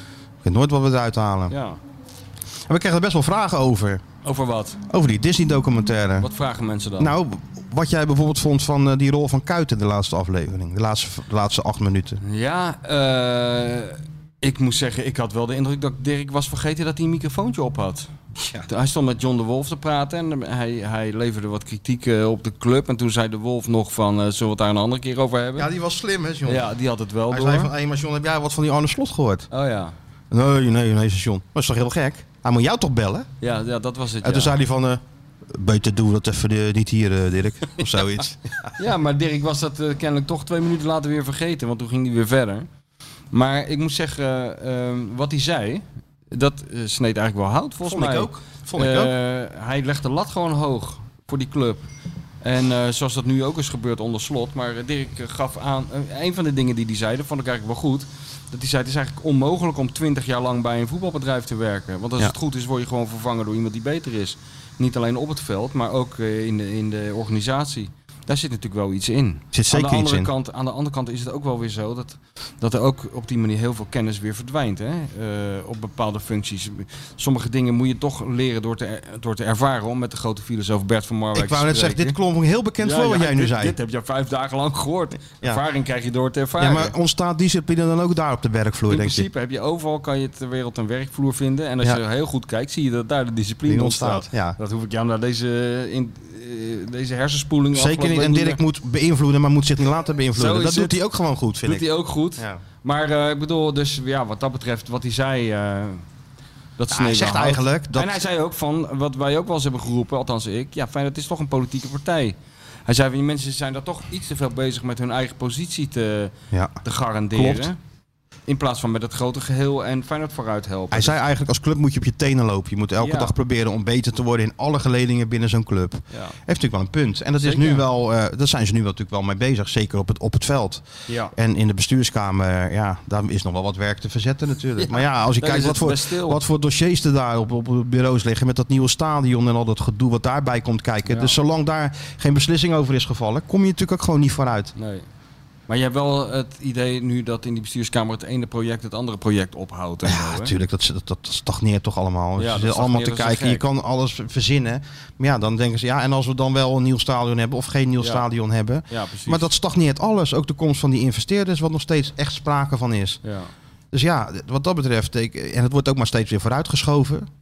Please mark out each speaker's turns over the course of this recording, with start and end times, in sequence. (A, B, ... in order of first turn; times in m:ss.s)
0:00.4-0:01.5 A
0:01.5-0:01.8 B
0:02.7-0:04.0 A
0:04.2-0:04.8 B
0:04.9-0:06.3 A
0:06.2-0:07.1 B
0:07.0-0:12.2 A
0:12.2-0:18.1 B
0:18.4-0:18.6 A
0:18.7-0:25.7 B
0:25.6-0:26.7 A
0:26.4-0:27.7 B
0:27.3-0:29.5 A
0:29.5-0:29.9 B
0:30.3-0:33.3 A
0:33.4-0:34.6 B
0:34.2-0:38.7 A
0:38.8-0:42.7 B
0:43.3-0:51.8 B
0:47.8-0:49.1 A
0:52.4-1:22.2 B
1:09.5-1:10.3 A
1:21.3-1:23.8 A
1:22.8-1:26.9 B
1:26.6-1:29.3 A
1:28.9-1:38.6 B
1:33.6-1:34.6 A
1:37.7-1:41.8 A
1:40.3-1:41.0 B
1:41.6-1:46.0 B
1:42.4-1:42.6 A
1:46.8-1:52.4 B
1:46.9-1:48.2 A
1:52.9-1:57.8 B
1:56.5-1:56.8 A
1:57.3-1:57.7 A
1:58.5-2:01.2 B
2:00.9-2:24.7 A
2:03.0-2:03.3 B
2:06.1-2:06.4 B
2:07.4-2:07.8 B
2:11.1-2:11.3 B
2:14.8-2:16.4 B
2:21.0-2:21.4 B
2:24.8-2:25.0 B
2:25.7-2:30.5 B
2:30.0-2:43.2 A
2:32.4-2:33.6 B
2:38.0-2:38.2 B
2:38.9-2:39.5 B
2:43.2-2:43.5 B
2:43.9-2:47.3 A